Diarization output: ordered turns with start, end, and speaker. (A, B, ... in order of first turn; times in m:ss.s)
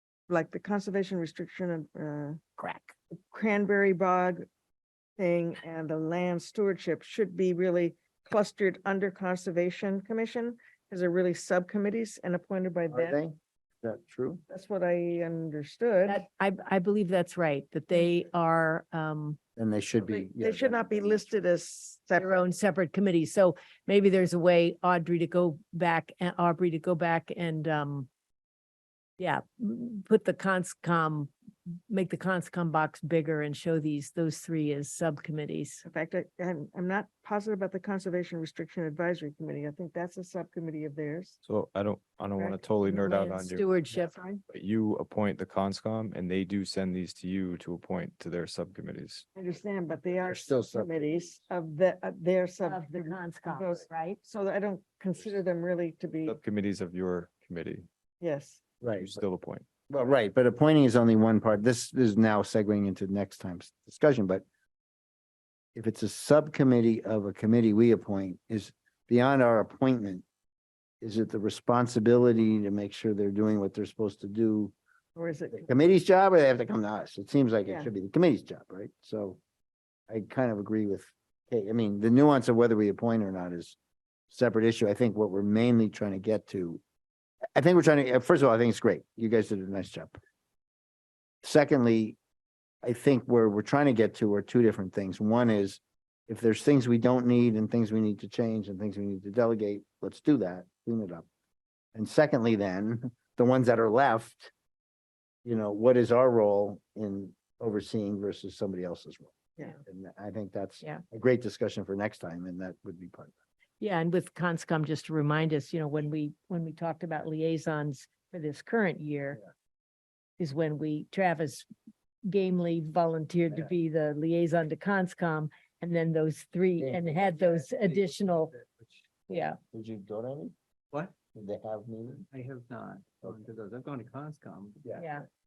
0:00.3-0:02.5 A
0:02.6-0:02.9 B
0:03.3-0:04.5 A
0:05.2-0:13.2 A
0:12.9-0:14.4 C
0:14.5-0:16.2 A
0:16.1-0:19.4 B
0:19.6-0:21.3 C
0:20.0-0:22.4 A
0:22.2-0:28.1 B
0:29.2-0:31.3 B
0:31.9-0:35.8 B
0:35.8-0:41.4 A
0:41.4-0:43.8 D
0:42.4-0:42.6 A
0:42.9-0:44.4 B
0:44.5-0:49.2 D
0:49.4-0:56.4 A
0:50.2-0:50.9 C
0:52.6-0:54.2 B
0:56.3-0:57.9 D
0:58.2-0:58.6 A
0:58.8-0:59.2 C
0:58.9-0:59.6 D
0:59.9-1:04.4 C
1:05.8-1:10.2 C
1:11.0-1:14.8 C
1:15.2-1:15.7 A
1:15.5-1:19.4 C
1:20.1-1:23.8 C
1:24.3-1:26.8 C
1:27.6-1:30.2 C
1:31.4-1:32.2 C
1:32.8-1:41.3 C
1:42.0-1:44.5 C
1:45.4-1:53.4 C
1:53.8-1:59.4 B
2:00.4-2:01.7 B
2:02.3-2:08.5 B
2:06.8-2:07.2 C
2:09.3-2:09.6 B
2:09.7-2:10.5 C
2:11.3-2:12.3 C
2:12.3-2:14.8 E
2:15.0-2:15.2 B